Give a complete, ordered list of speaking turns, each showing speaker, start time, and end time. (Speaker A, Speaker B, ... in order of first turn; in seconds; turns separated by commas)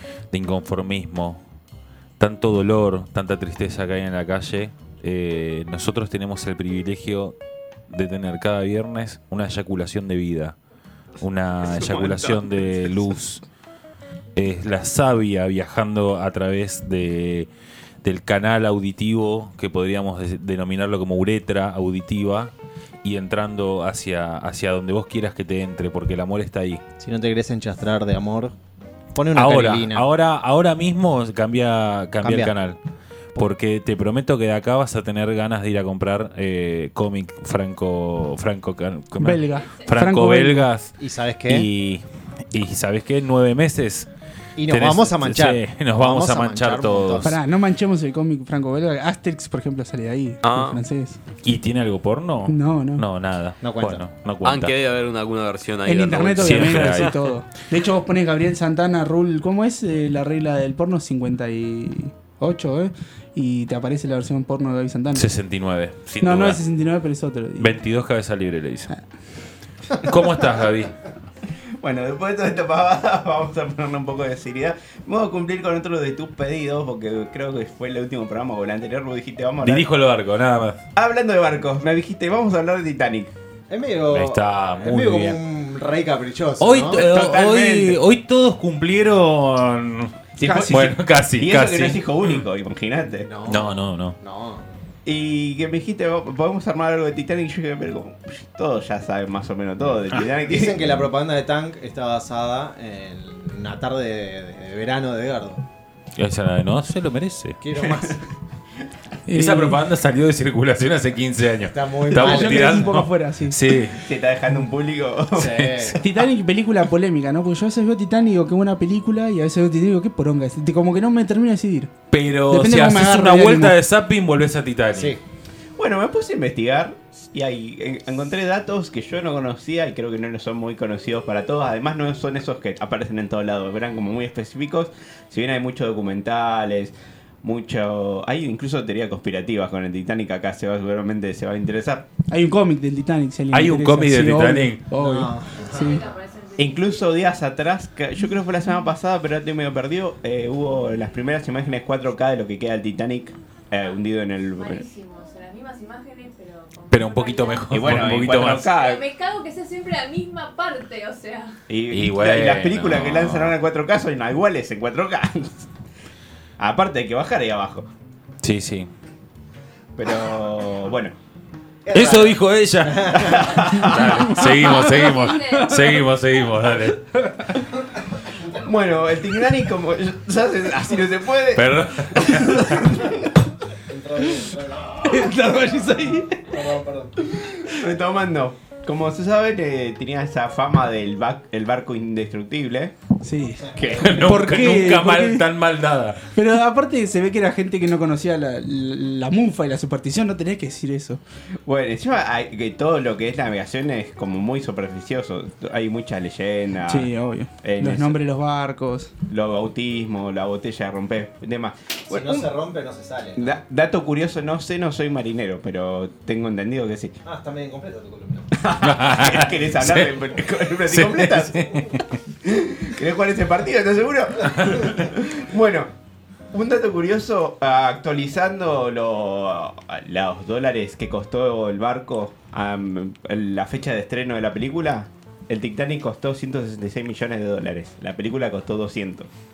Speaker A: 0.3-1.4, Speaker A: 2.2-7.3, Speaker A: 7.9-10.6, Speaker A: 11.2-13.4, Speaker B: 11.6-12.9, Speaker A: 14.4-17.5, Speaker A: 18.0-22.5, Speaker A: 23.0-26.8, Speaker C: 27.0-28.5, Speaker C: 29.1-30.1, Speaker A: 29.3-32.8, Speaker C: 32.2-32.5, Speaker A: 33.4-44.1, Speaker D: 39.2-40.7, Speaker E: 39.4-40.0, Speaker C: 41.0-41.7, Speaker C: 44.5-47.3, Speaker A: 44.7-47.4, Speaker D: 47.2-51.2, Speaker F: 50.4-50.8, Speaker A: 51.4-54.7, Speaker D: 52.5-53.0, Speaker C: 53.6-54.0, Speaker F: 54.4-57.1, Speaker D: 55.9-65.3, Speaker A: 56.4-57.2, Speaker A: 65.1-66.6, Speaker D: 66.2-67.8, Speaker A: 67.6-68.9, Speaker A: 70.0-70.9, Speaker B: 71.8-79.9, Speaker A: 79.6-80.8, Speaker B: 81.0-83.3, Speaker C: 83.7-87.1, Speaker A: 84.1-85.4, Speaker A: 86.6-90.1, Speaker B: 86.9-88.0, Speaker B: 90.4-93.3, Speaker D: 90.4-91.0, Speaker A: 90.7-92.0, Speaker C: 93.2-94.6, Speaker A: 93.5-94.2, Speaker B: 95.1-101.0, Speaker C: 100.4-105.6, Speaker A: 106.2-107.6, Speaker C: 107.6-108.2, Speaker D: 109.3-109.8, Speaker A: 109.3-114.0, Speaker C: 111.7-112.9, Speaker D: 112.1-113.6, Speaker B: 114.0-115.6, Speaker C: 115.3-116.0, Speaker A: 115.4-116.0, Speaker D: 116.0-121.9, Speaker A: 122.1-125.2, Speaker D: 122.5-123.8, Speaker C: 124.9-125.2, Speaker B: 125.8-142.1, Speaker D: 142.3-146.0, Speaker A: 143.5-144.9, Speaker C: 144.9-146.1, Speaker E: 145.6-147.2, Speaker B: 146.6-154.8, Speaker E: 154.6-161.6, Speaker A: 156.9-158.7, Speaker B: 157.7-159.0, Speaker B: 161.7-165.7, Speaker A: 161.9-163.5, Speaker B: 166.6-167.9, Speaker A: 168.4-168.9, Speaker B: 169.9-171.1, Speaker C: 171.8-173.9, Speaker A: 171.9-177.0, Speaker B: 173.2-174.5, Speaker D: 174.3-176.0, Speaker E: 174.4-176.1, Speaker D: 177.1-177.7, Speaker B: 178.5-183.3, Speaker A: 181.5-182.8, Speaker C: 183.8-185.3, Speaker D: 185.0-186.6, Speaker C: 186.5-187.2, Speaker B: 187.2-192.9, Speaker D: 193.2-195.4, Speaker C: 193.6-194.2, Speaker B: 193.7-194.6, Speaker A: 193.9-196.3, Speaker D: 196.3-201.2, Speaker B: 201.7-207.1, Speaker D: 206.8-209.1, Speaker B: 207.6-208.2, Speaker B: 209.3-212.5, Speaker C: 212.1-213.5, Speaker B: 213.4-217.2, Speaker C: 217.2-218.7, Speaker B: 218.5-221.8, Speaker A: 218.8-220.1, Speaker A: 220.9-222.1, Speaker B: 222.4-225.9, Speaker B: 226.5-239.3